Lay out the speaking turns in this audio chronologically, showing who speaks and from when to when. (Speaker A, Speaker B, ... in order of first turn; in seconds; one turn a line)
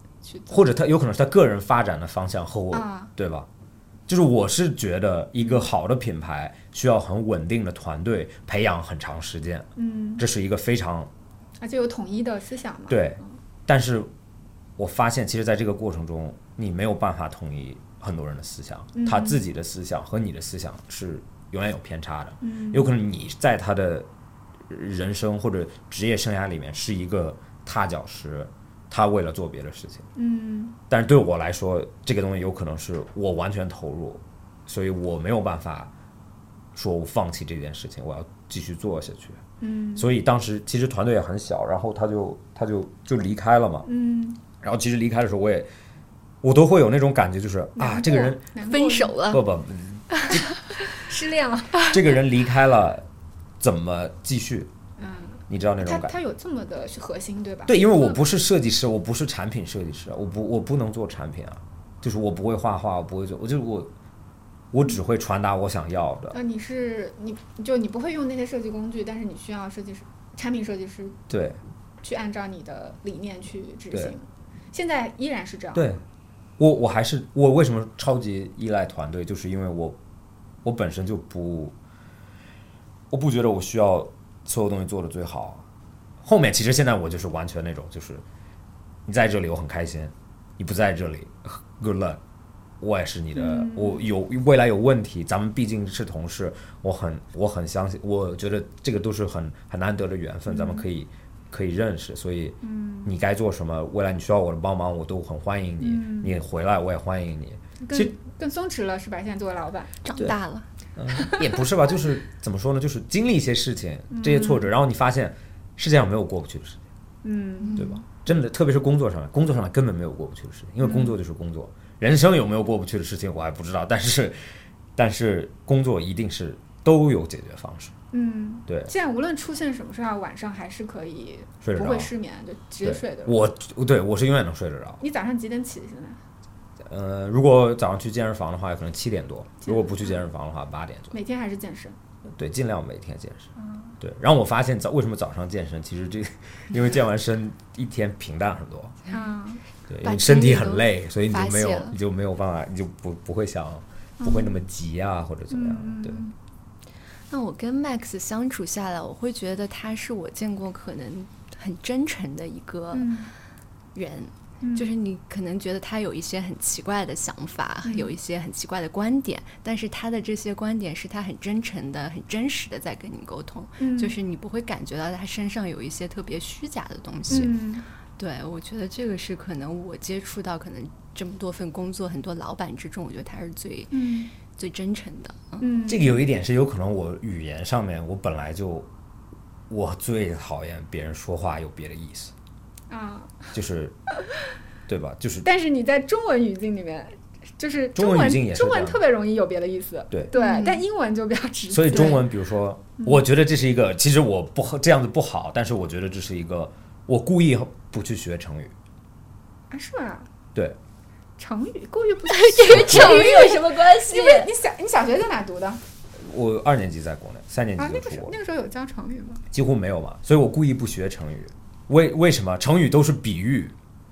Speaker A: 0.2-0.7
Speaker B: 0.5-3.5
Speaker A: 2.7-3.1
Speaker B: 4.1-11.1
Speaker A: 5.4-5.7
Speaker A: 9.8-10.2
Speaker A: 11.6-13.4
Speaker B: 12.9-14.1
Speaker B: 14.8-24.1
Speaker A: 18.9-19.4
Speaker A: 22.4-22.9
Speaker B: 24.7-30.1
Speaker A: 30.2-30.8
Speaker B: 30.9-35.9
Speaker B: 36.8-39.4
Speaker A: 39.6-40.1
Speaker B: 40.0-43.9
Speaker A: 43.9-44.4
Speaker B: 44.6-45.7
Speaker B: 46.4-48.4
Speaker A: 47.8-49.2
Speaker C: 48.6-49.5
Speaker B: 49.2-50.5
Speaker C: 50.1-50.4
Speaker A: 50.9-52.0
Speaker B: 51.8-53.1
Speaker B: 53.6-54.7
Speaker A: 55.0-58.2
Speaker B: 55.5-56.2
Speaker B: 57.7-63.9
Speaker B: 64.7-66.4
Speaker A: 66.3-71.2
Speaker B: 71.3-71.6
Speaker A: 72.0-76.0
Speaker B: 75.7-76.0
Speaker B: 76.6-80.0
Speaker B: 80.6-81.8
Speaker B: 83.1-85.7
Speaker B: 86.2-88.2
Speaker B: 89.1-92.2
Speaker B: 92.8-108.1
Speaker A: 93.3-94.1
Speaker A: 100.5-100.8
Speaker A: 102.6-103.1
Speaker A: 105.8-106.3
Speaker A: 107.8-109.9
Speaker C: 110.0-110.7
Speaker B: 111.0-116.8
Speaker A: 111.1-111.6
Speaker A: 114.1-114.7
Speaker A: 117.2-117.9
Speaker C: 117.6-118.0
Speaker B: 117.8-124.4
Speaker A: 120.8-121.1
Speaker B: 125.0-128.0
Speaker A: 128.1-133.4
Speaker B: 131.6-132.1
Speaker B: 132.8-135.0
Speaker A: 135.0-136.2
Speaker B: 136.8-141.2
Speaker A: 139.6-140.2
Speaker A: 141.1-142.0
Speaker B: 142.2-143.5
Speaker A: 143.6-144.0
Speaker B: 144.0-149.0
Speaker A: 149.1-149.6
Speaker B: 149.9-156.2
Speaker C: 150.0-152.0
Speaker A: 154.2-154.6
Speaker A: 155.5-156.3
Speaker C: 157.3-163.2
Speaker A: 162.9-163.3
Speaker C: 163.9-177.6
Speaker A: 164.6-164.9
Speaker A: 167.8-168.2
Speaker A: 173.8-174.1
Speaker A: 177.3-177.9
Speaker C: 178.2-183.9
Speaker A: 183.9-184.3
Speaker C: 184.5-185.7
Speaker A: 185.6-186.2
Speaker B: 185.9-188.9
Speaker B: 189.7-192.3
Speaker A: 192.9-193.5
Speaker B: 193.5-194.0
Speaker B: 194.9-195.5
Speaker A: 195.4-202.3
Speaker B: 197.9-199.0
Speaker C: 200.3-200.8
Speaker B: 201.7-208.7
Speaker A: 209.7-210.3
Speaker A: 211.4-215.8
Speaker C: 212.3-214.5
Speaker B: 212.7-213.2
Speaker B: 216.2-218.3
Speaker A: 217.8-219.4
Speaker B: 219.5-223.8